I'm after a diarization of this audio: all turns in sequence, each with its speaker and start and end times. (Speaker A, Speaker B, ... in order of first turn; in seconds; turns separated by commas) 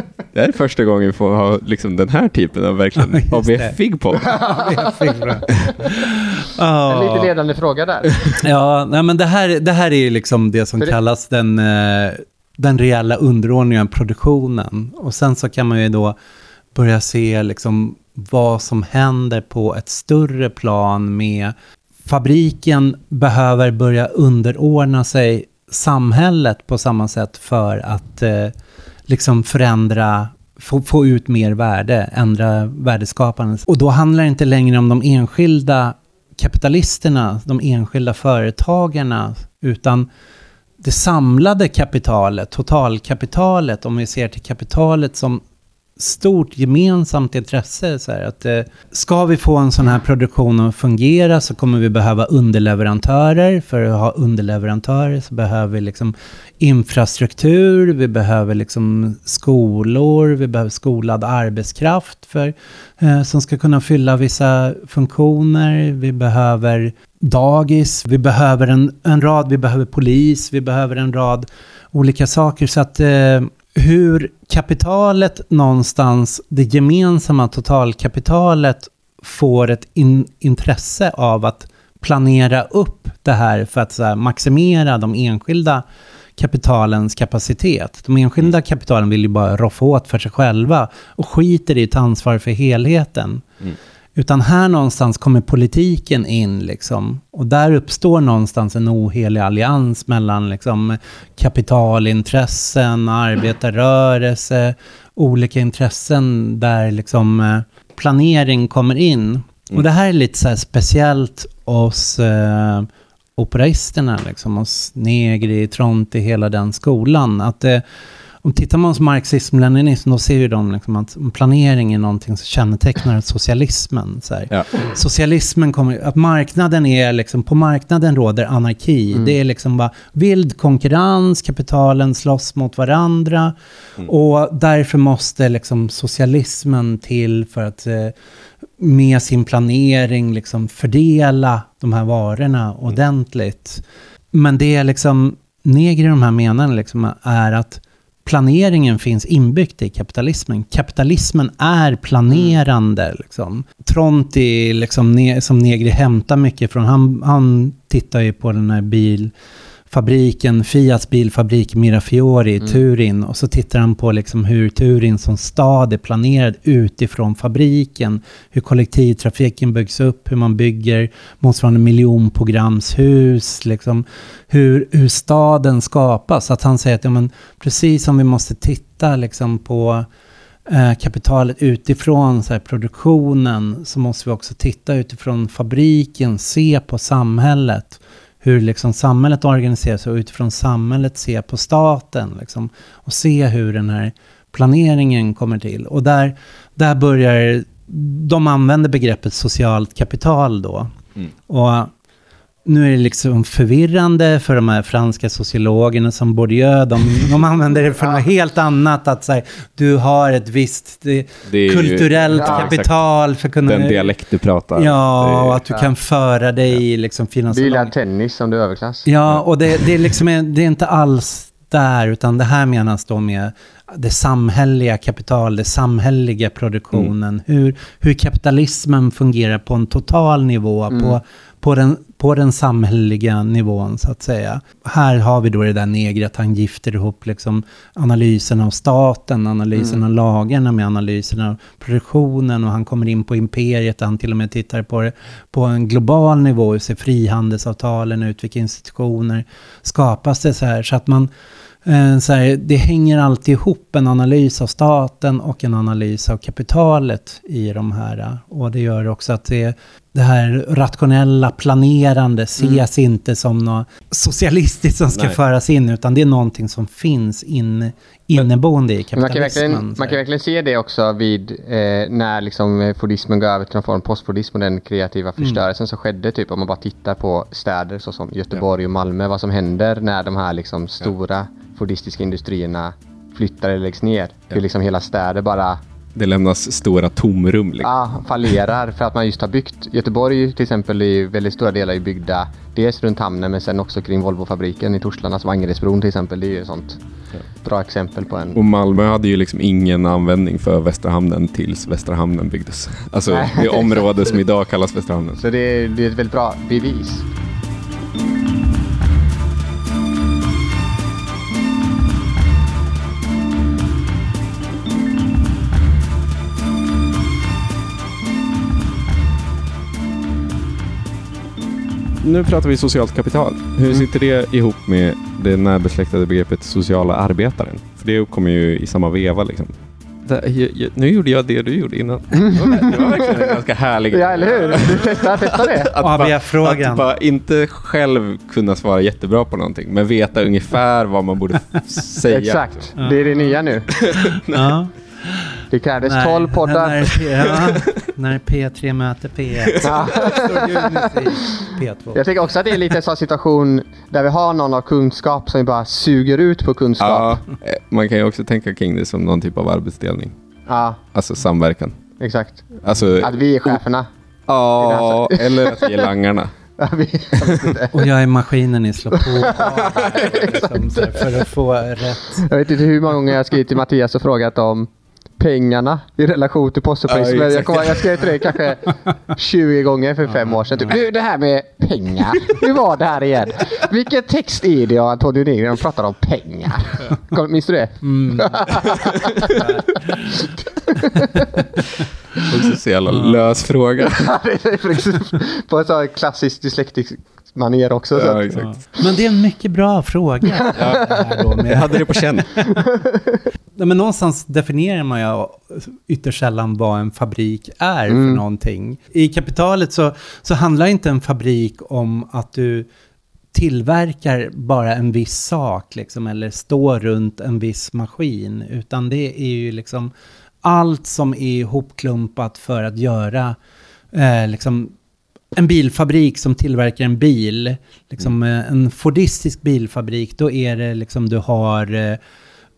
Speaker A: 0.3-4.3, Speaker B: 3.0-7.3, Speaker C: 4.3-4.8, Speaker C: 6.9-8.3, Speaker B: 8.4-16.1, Speaker B: 16.7-21.5, Speaker B: 22.1-28.5, Speaker B: 29.1-40.1, Speaker B: 40.8-45.4, Speaker B: 46.0-85.8, Speaker B: 86.4-93.4, Speaker B: 94.2-117.8, Speaker B: 118.4-138.1, Speaker B: 138.8-159.3, Speaker B: 159.9-180.1, Speaker B: 180.7-200.9, Speaker B: 201.5-201.9, Speaker B: 202.7-214.1, Speaker A: 211.5-213.0, Speaker C: 212.4-212.7, Speaker A: 213.7-215.6, Speaker B: 214.7-217.9, Speaker C: 217.5-219.1, Speaker B: 219.1-251.3, Speaker C: 230.9-231.2, Speaker C: 239.8-240.0, Speaker B: 251.8-270.2, Speaker C: 262.6-262.8, Speaker C: 269.1-285.8, Speaker A: 286.1-287.9, Speaker C: 287.8-297.0, Speaker C: 297.6-298.6, Speaker A: 298.5-305.4, Speaker C: 303.3-304.1, Speaker C: 305.4-307.3, Speaker A: 322.2-329.7, Speaker A: 330.2-342.9, Speaker C: 332.4-333.6, Speaker C: 334.1-335.9, Speaker B: 336.0-337.0, Speaker C: 342.3-343.9, Speaker B: 343.0-343.5, Speaker A: 344.0-344.8, Speaker B: 344.5-352.3, Speaker C: 345.7-347.1, Speaker C: 349.8-351.3, Speaker C: 352.1-357.4, Speaker A: 357.0-360.3, Speaker C: 360.7-361.0, Speaker A: 361.1-362.0, Speaker C: 362.2-364.1, Speaker A: 362.8-363.8, Speaker A: 364.5-366.5, Speaker C: 364.8-366.1, Speaker C: 366.8-368.1, Speaker A: 367.5-367.7, Speaker B: 367.9-372.4, Speaker C: 369.2-371.2, Speaker C: 372.4-389.6, Speaker A: 377.1-378.2, Speaker B: 380.3-380.9, Speaker B: 388.0-388.7, Speaker B: 389.5-390.2, Speaker C: 390.4-391.4, Speaker B: 391.1-391.6, Speaker A: 392.5-394.4, Speaker B: 393.1-393.4, Speaker C: 394.2-398.6, Speaker A: 398.1-398.7, Speaker B: 398.6-402.7, Speaker C: 400.6-400.9, Speaker A: 400.8-402.5, Speaker C: 402.8-403.4, Speaker B: 403.8-412.9, Speaker C: 408.1-408.4, Speaker B: 413.5-420.1, Speaker B: 420.6-423.6, Speaker B: 424.1-424.9, Speaker B: 425.6-432.2